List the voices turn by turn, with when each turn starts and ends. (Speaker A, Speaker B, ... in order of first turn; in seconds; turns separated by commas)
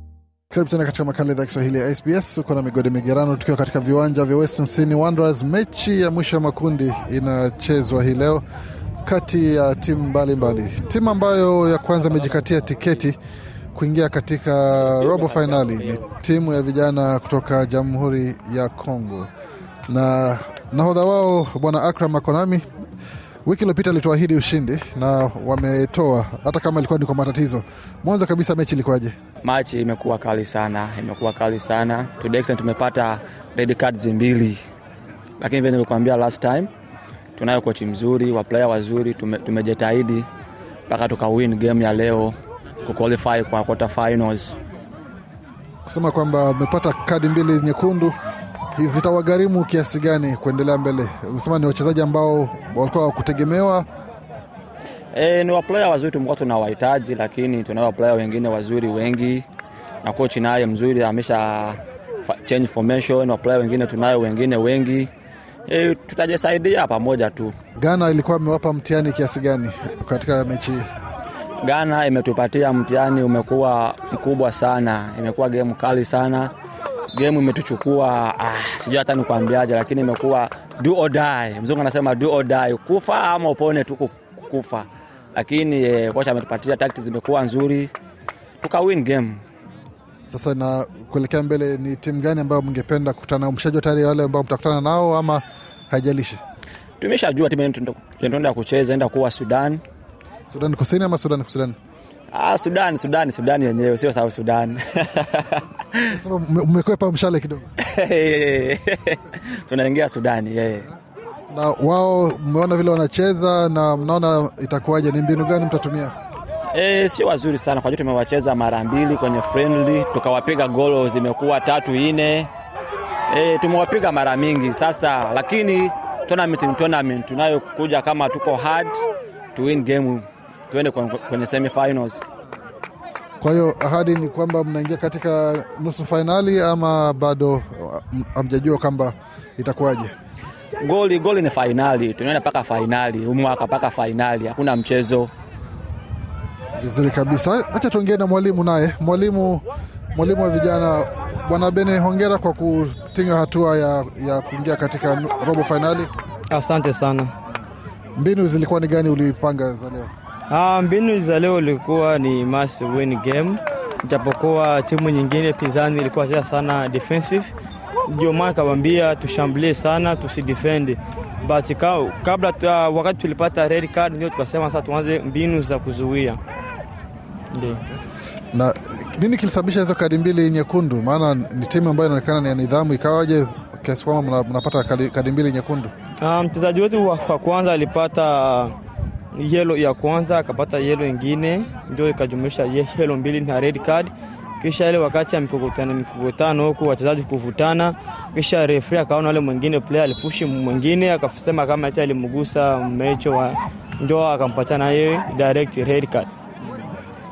Speaker A: 0.5-8.4, Speaker A: 9.0-13.2, Speaker A: 13.7-19.3, Speaker B: 14.9-16.0, Speaker A: 19.9-22.6, Speaker A: 23.4-29.1, Speaker B: 29.4-34.6, Speaker B: 35.4-36.7, Speaker B: 37.4-40.3, Speaker B: 40.9-44.6, Speaker A: 45.9-48.1, Speaker A: 48.7-53.8, Speaker B: 55.1-59.5, Speaker B: 60.0-65.1, Speaker B: 65.7-67.5, Speaker A: 67.8-70.8, Speaker B: 71.6-76.5, Speaker B: 77.1-87.9, Speaker B: 88.6-89.4, Speaker A: 90.3-96.4, Speaker B: 97.0-99.8, Speaker A: 100.5-101.8, Speaker B: 102.3-105.6, Speaker A: 106.1-107.7, Speaker B: 107.8-110.9, Speaker A: 111.5-116.1, Speaker B: 116.7-122.5, Speaker B: 123.3-132.2, Speaker A: 133.4-140.1, Speaker B: 140.8-145.3, Speaker A: 146.8-156.1, Speaker C: 156.5-157.3, Speaker A: 158.2-160.1, Speaker C: 160.5-167.5, Speaker C: 168.1-176.4, Speaker C: 177.5-177.8, Speaker A: 177.6-178.0, Speaker A: 178.5-185.9, Speaker C: 186.2-188.8, Speaker C: 189.3-206.3